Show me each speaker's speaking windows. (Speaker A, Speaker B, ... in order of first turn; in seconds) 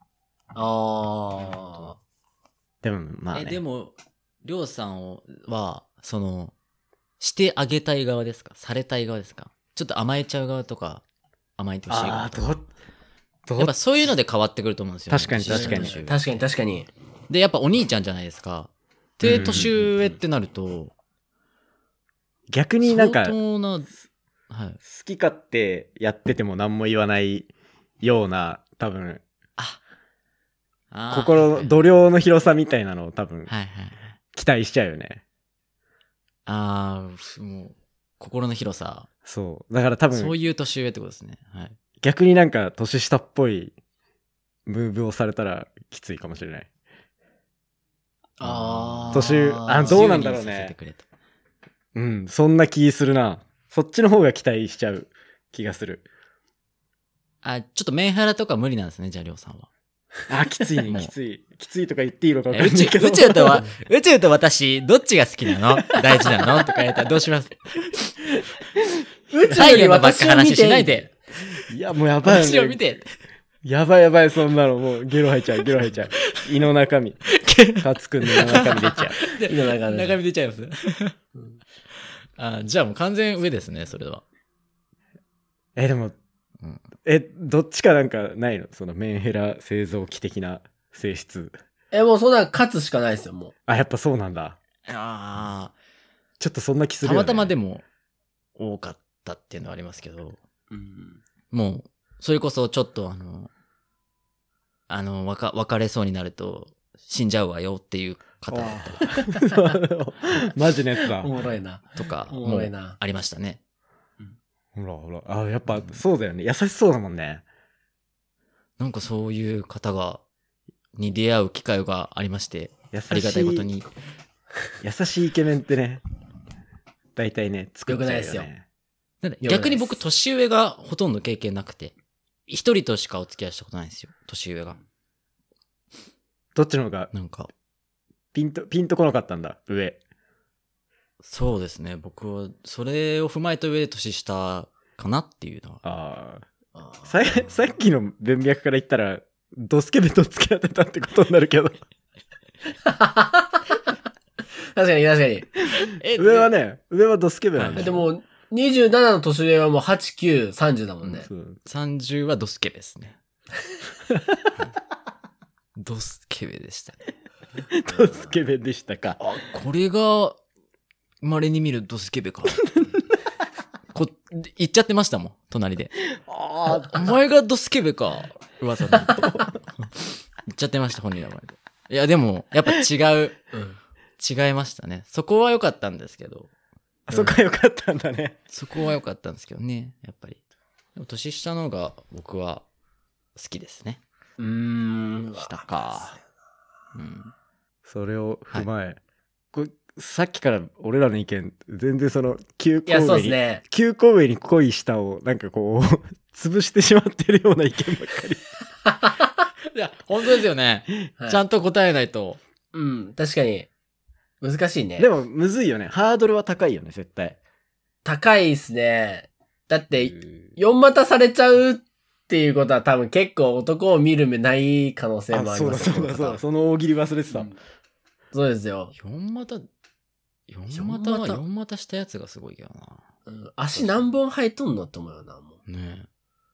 Speaker A: 0.6-2.0, 15.4-16.9, 48.4-50.1, 69.3-71.1, 79.5-80.2, 91.9-93.5, 100.7-101.2, 109.0-109.7, 111.0-113.0, 127.9-128.5, 129.4-130.0, 146.8-147.6, 152.9-153.8, 154.8-155.5, 157.8-161.3, 167.9-168.3, 183.5-183.8, 187.1-187.4, 194.4-196.2, 202.9-203.6, 211.2-211.4, 212.7-213.7, 214.4-215.1, 218.1-226.4, 227.3-227.6, 228.3-228.9, 230.7-231.4, 233.3-235.6
Speaker B: 2.8-3.6, 11.9-12.7, 13.5-13.8, 15.1-16.0, 19.2-19.8, 22.5-23.4, 24.9-27.5, 28.0-29.2, 31.1-33.5, 34.4-35.2, 39.3-40.3, 42.0-43.7, 44.7-46.7, 49.1-50.8, 52.0-56.0, 60.3-63.6, 71.7-72.8, 73.6-77.2, 77.8-79.3, 85.8-86.2, 87.0-91.6, 93.7-94.6, 96.4-97.5, 108.5-111.3, 114.8-117.4, 122.9-123.7, 124.8-126.0, 127.2-128.6, 136.6-137.1, 138.3-140.0, 145.8-146.4, 147.1-151.8, 156.2-158.0, 161.3-161.6, 167.7-169.2, 176.3-177.1, 187.1-188.3, 197.9-199.0, 199.5-208.5, 215.0-217.4, 225.3-227.5
Speaker C: 3.3-6.5, 7.2-11.0, 11.6-12.6, 13.6-16.5, 17.3-20.9, 22.8-23.9, 24.5-24.8, 30.9-32.0, 33.5-34.1, 36.5-39.1, 40.1-41.7, 48.4-51.0, 57.4-59.7, 60.9-61.1, 62.5-68.1, 69.5-71.1, 72.2-73.1, 77.4-81.2, 82.4-84.2, 94.9-95.8, 97.0-97.8, 98.6-100.4, 101.5-103.5, 104.9-109.0, 112.0-113.6, 115.7-116.0, 118.8-120.2, 121.0-123.9, 129.2-131.9, 132.5-134.8, 137.1-137.5, 141.2-145.8, 155.9-156.5, 157.6-158.1, 161.0-163.2, 165.8-167.0, 169.2-170.4, 171.2-172.8, 173.9-176.0, 176.7-183.5, 184.2-186.5, 188.5-190.4, 191.0-192.6, 193.4-194.0, 195.4-196.2, 196.9-197.3, 209.7-212.4, 220.0-220.6, 228.9-229.7, 230.5-233.0, 235.7-236.1